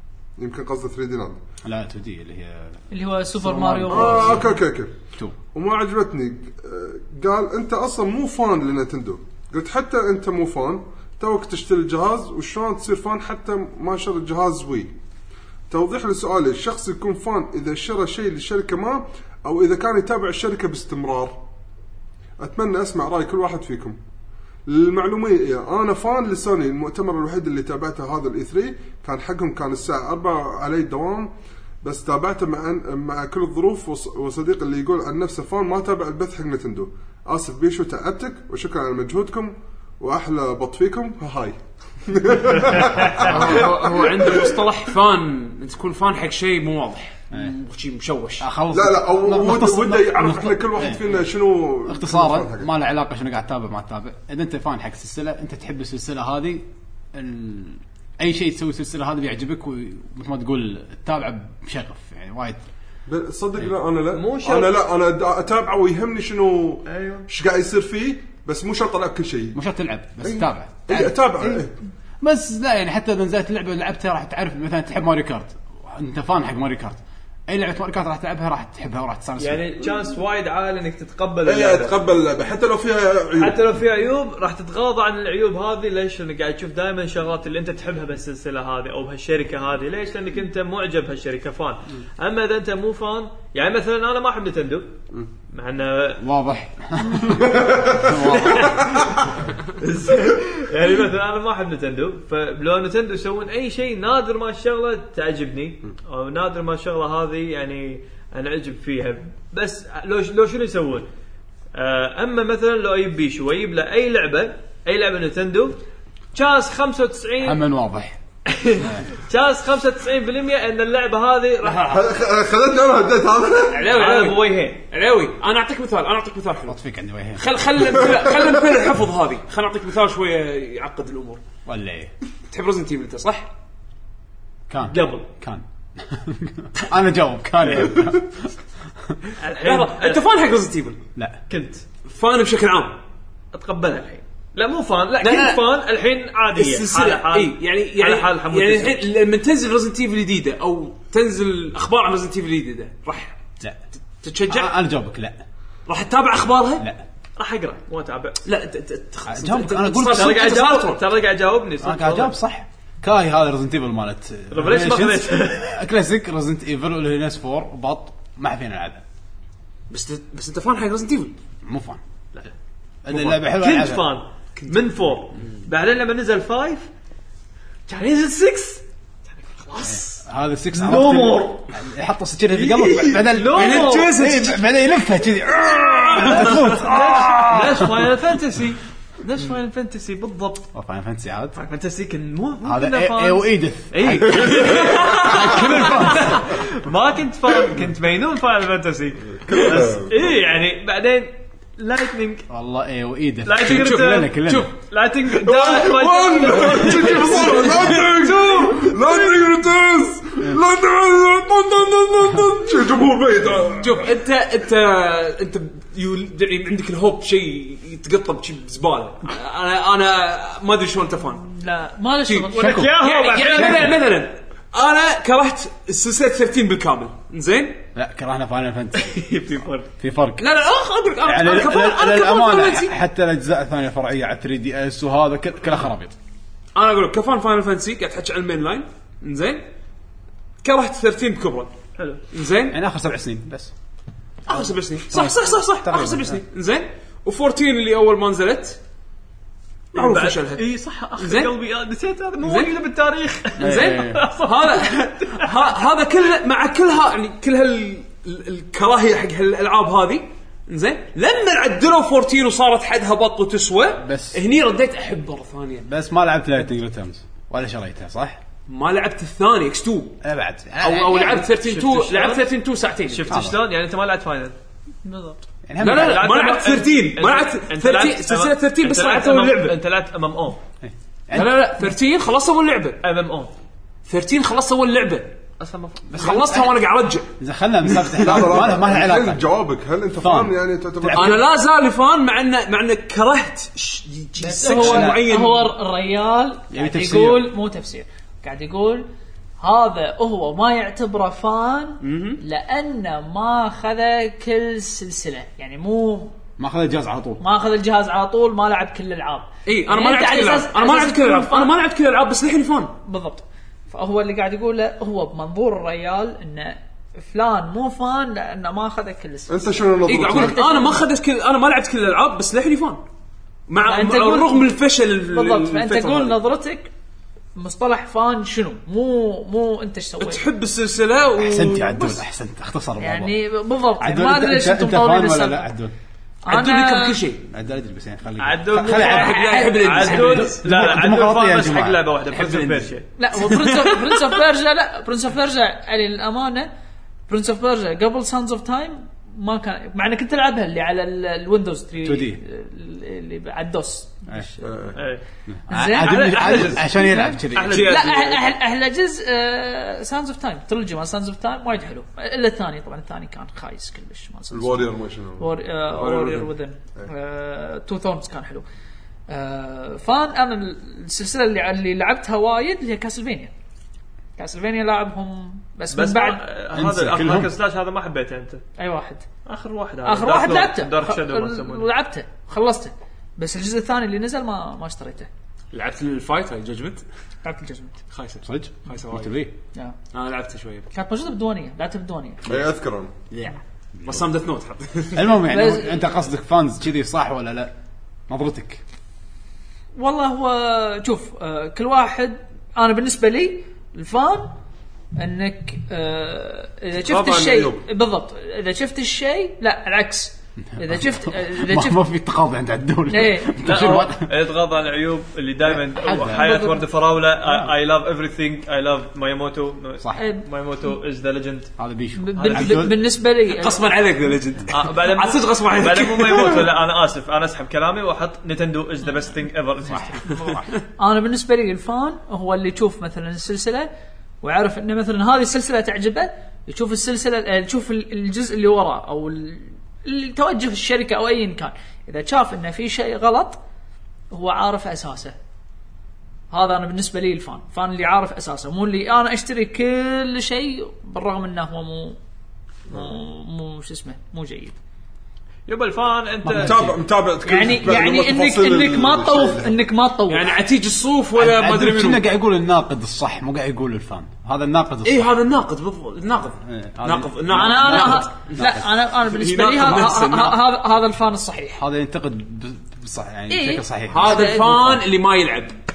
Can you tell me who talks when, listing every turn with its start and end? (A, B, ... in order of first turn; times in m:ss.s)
0:00.4-0:01.4 A
0:01.6-0:04.6 B
0:02.9-0:04.5 C
0:03.9-0:04.9 A
0:05.5-0:14.9 A
0:15.7-0:21.4 A
0:22.4-0:24.0 A
0:24.7-0:31.3 A
0:31.8-0:44.6 A
0:43.2-0:48.4 D
0:43.3-0:43.7 B
0:48.4-0:51.2 B
0:48.7-0:52.7 A
0:51.9-1:02.6 B
1:03.1-1:09.6 A
1:04.1-1:04.8 E
1:06.9-1:07.3 E
1:09.6-1:11.7 B
1:10.2-1:11.7 A
1:12.2-1:19.6 B
1:19.4-1:22.0 E
1:21.4-1:23.6 A
1:23.3-1:34.9 E
1:35.5-1:36.2 E
1:36.2-1:38.9 B
1:37.4-1:39.2 A
1:38.3-1:51.1 E
1:51.8-1:55.8 E
1:56.3-1:57.6 E
1:57.4-1:58.2 B
1:58.5-2:02.1 E
2:01.7-2:03.9 A
2:03.7-2:06.8 D
2:03.9-2:04.8 E
2:06.7-2:07.4 B
2:07.4-2:11.4 D
2:11.7-2:12.1 B
2:12.5-2:13.5 D
2:14.7-2:18.5 B
2:14.9-2:15.3 E
2:17.6-2:18.1 E
2:19.4-2:20.2 E
2:19.6-2:21.0 D
2:21.5-2:21.8 E
2:22.0-2:23.0 D
2:23.5-2:29.0 E
2:25.2-2:25.6 D
2:26.6-2:33.4 D
2:34.2-2:34.7 D
2:34.5-2:35.4 B
2:35.9-2:36.9 D
2:36.8-2:37.0 B
2:37.4-2:38.4 E
2:38.4-2:41.0 D
2:39.3-2:40.6 B
2:40.0-2:42.4 E
2:41.8-2:49.0 B
2:44.5-2:45.8 E
2:49.9-2:51.4 D
2:51.6-2:52.0 B
2:53.0-2:54.1 B
2:53.1-2:56.9 E
2:54.6-2:54.9 D
2:57.9-2:58.8 E
2:59.4-3:01.7 E
2:59.8-3:08.1 B
3:02.5-3:04.2 E
3:03.5-3:04.6 D
3:06.1-3:06.7 D
3:06.2-3:10.7 E
3:10.7-3:11.6 B
3:11.6-3:22.5 E
3:12.6-3:16.5 B
3:19.4-3:20.2 A
3:22.5-3:24.7 B
3:23.4-3:28.9 E
3:23.7-3:24.7 D
3:25.4-3:34.1 A
3:27.3-3:28.0 D
3:33.8-3:41.4 D
3:41.4-3:42.7 C
3:42.3-3:47.8 D
3:42.5-3:44.0 E
3:42.6-3:43.0 B
3:43.5-3:44.0 B
3:48.0-3:49.2 B
3:48.9-3:49.9 E
3:50.0-3:50.5 B
3:50.4-3:52.9 D
3:51.2-3:56.1 B
3:56.8-3:59.6 D
4:00.6-4:01.7 D
4:02.0-4:02.2 E
4:02.3-4:02.8 D
4:02.7-4:03.7 B
4:04.5-4:08.8 D
4:04.5-4:06.4 B
4:09.9-4:10.6 D
4:09.9-4:15.7 E
4:11.2-4:11.5 D
4:12.4-4:12.7 D
4:13.6-4:25.9 D
4:13.6-4:14.2 B
4:24.0-4:24.4 B
4:25.8-4:28.4 B
4:28.7-4:30.2 D
4:30.2-4:31.5 B
4:30.8-4:33.4 D
4:31.5-4:32.5 E
4:33.0-4:34.6 E
4:33.3-4:33.6 B
4:35.0-4:35.4 C
4:35.7-4:36.3 B
4:35.8-4:39.8 D
4:35.8-4:40.6 E
4:40.8-4:41.7 B
4:41.3-4:43.0 D
4:43.0-4:43.5 E
4:44.1-4:45.4 D
4:45.6-4:46.3 E
4:46.1-4:46.8 B
4:46.1-4:47.3 D
4:47.4-4:49.4 B
4:48.1-4:51.4 A
4:50.2-4:51.4 B
4:51.1-4:55.7 D
4:54.5-4:59.1 C
4:54.6-4:55.2 E
4:54.8-4:55.1 B
4:56.7-4:57.5 B
4:59.6-5:06.3 C
5:02.0-5:02.4 D
5:06.6-5:07.4 B
5:07.4-5:11.7 C
5:09.7-5:13.0 D
5:13.0-5:21.0 C
5:19.5-5:20.6 A
5:20.1-5:23.0 D
5:23.7-5:26.4 D
5:23.8-5:26.9 C
5:27.6-5:30.5 C
5:30.2-5:32.2 D
5:31.4-5:33.3 B
5:33.0-5:35.7 C
5:34.0-5:35.9 B
5:36.4-5:37.2 C
5:36.5-5:37.4 D
5:37.5-5:39.4 B
5:38.4-5:43.1 E
5:38.9-5:40.6 D
5:39.0-5:40.4 C
5:40.2-5:42.1 B
5:42.3-5:42.9 D
5:43.2-5:46.7 C
5:43.5-5:44.1 D
5:47.3-5:54.8 C
5:52.0-5:52.4 B
5:54.6-5:55.0 A
5:55.0-5:55.2 E
5:55.5-5:57.9 B
5:55.7-6:04.8 C
5:55.8-5:58.4 E
5:57.8-5:58.2 D
6:04.5-6:05.5 A
6:05.4-6:08.6 C
6:06.0-6:06.5 D
6:09.3-6:13.5 C
6:14.4-6:16.4 C
6:15.9-6:18.6 E
6:16.8-6:17.5 B
6:18.8-6:19.3 C
6:19.4-6:21.9 E
6:20.0-6:25.3 C
6:25.7-6:27.0 D
6:27.4-6:28.0 C
6:28.1-6:29.4 D
6:28.4-6:29.5 B
6:30.1-6:30.9 D
6:30.9-6:32.4 C
6:32.5-6:33.1 A
6:33.3-6:35.4 D
6:35.1-6:37.7 B
6:35.4-6:36.1 C
6:38.3-6:38.8 B
6:40.0-6:44.6 C
6:45.2-6:52.0 C
6:47.1-6:47.8 A
6:50.8-6:54.4 B
6:53.1-6:53.6 C
6:53.6-7:01.7 E
6:55.7-6:56.7 B
6:56.3-6:56.8 C
6:57.4-6:57.7 B
7:00.2-7:00.4 C
7:01.8-7:03.0 B
7:02.2-7:03.9 C
7:02.4-7:02.8 E
7:03.5-7:06.7 D
7:04.7-7:10.6 E
7:09.9-7:10.6 B
7:11.0-7:13.9 C
7:14.4-7:23.6 C
7:24.3-7:25.4 C
7:26.5-7:32.2 C
7:32.9-7:34.8 C
7:35.7-7:36.9 E
7:36.4-7:37.0 B
7:36.6-7:39.8 A
7:37.4-7:40.5 C
7:40.3-7:42.2 D
7:41.4-7:45.3 B
7:45.0-7:50.6 D
7:46.6-7:48.8 B
7:47.5-7:51.8 C
7:51.8-7:55.0 B
7:53.5-7:54.8 C
7:54.1-7:55.8 D